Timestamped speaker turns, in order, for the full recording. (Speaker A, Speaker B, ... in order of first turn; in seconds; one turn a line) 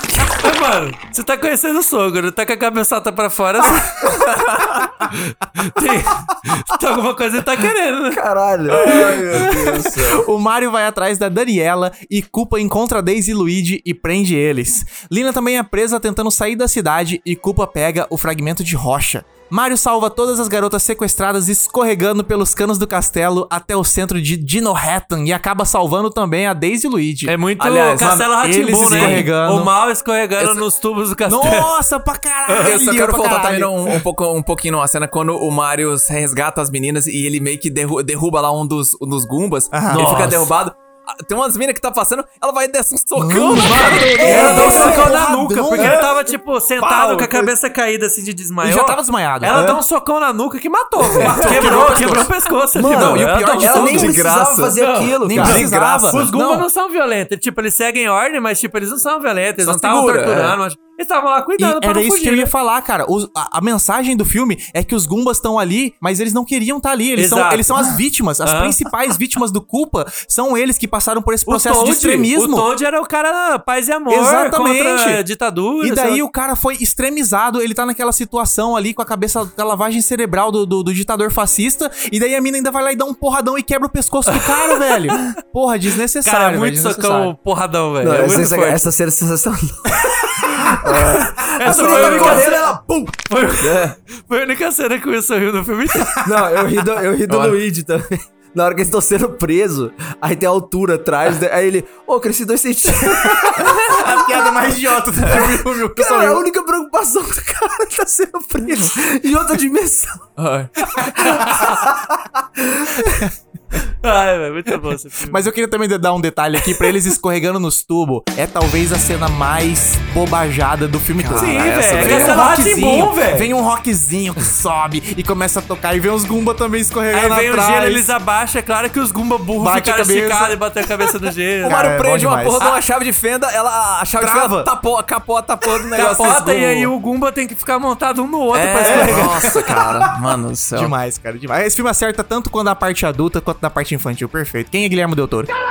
Speaker A: 0.4-3.9
Speaker B: 4.3-4.8
Speaker A: 5.0-8.2
Speaker C: 8.1-9.1
Speaker B: 8.7-10.2
Speaker A: 8.7-9.2
Speaker D: 9.3-27.3
Speaker A: 27.3-31.7
Speaker B: 27.6-28.3
Speaker D: 28.0-29.7
Speaker B: 28.9-29.3
Speaker D: 31.3-33.9
Speaker A: 32.5-32.7
Speaker B: 32.6-45.0
Speaker D: 39.7-40.1
Speaker A: 39.9-40.5
Speaker D: 43.2-46.0
Speaker A: 43.7-54.1
Speaker C: 43.9-45.1
Speaker B: 45.8-46.1
Speaker D: 48.6-49.8
Speaker D: 51.2-54.1
Speaker B: 51.2-51.8
Speaker C: 52.7-55.7
Speaker B: 53.7-54.8
Speaker A: 54.8-62.5
Speaker D: 55.2-56.7
Speaker B: 55.4-56.1
Speaker B: 59.6-60.6
Speaker D: 61.6-72.7
Speaker A: 67.2-67.8
Speaker A: 68.4-68.8
Speaker A: 71.5-76.2
Speaker D: 74.1-75.2
Speaker D: 75.8-87.3
Speaker A: 84.3-84.9
Speaker A: 86.2-88.9
Speaker C: 88.0-90.1
Speaker C: 90.8-92.8
Speaker B: 90.9-92.4
Speaker A: 91.4-92.7
Speaker D: 91.7-92.8
Speaker A: 93.3-96.2
Speaker C: 96.2-104.4
Speaker B: 97.3-97.6
Speaker D: 103.0-106.4
Speaker C: 105.3-110.2
Speaker B: 110.4-110.7
Speaker C: 111.2-113.2
Speaker A: 111.4-111.7
Speaker D: 113.0-113.3
Speaker A: 114.0-115.4
Speaker D: 115.2-128.1
Speaker B: 121.2-122.4
Speaker A: 121.4-123.5
Speaker A: 127.1-131.8
Speaker D: 129.6-130.6
Speaker D: 131.6-132.8
Speaker B: 131.6-136.6
Speaker D: 134.2-134.7
Speaker D: 135.9-136.9
Speaker A: 135.9-139.5
Speaker B: 138.5-140.9
Speaker D: 138.8-140.1
Speaker D: 140.7-145.5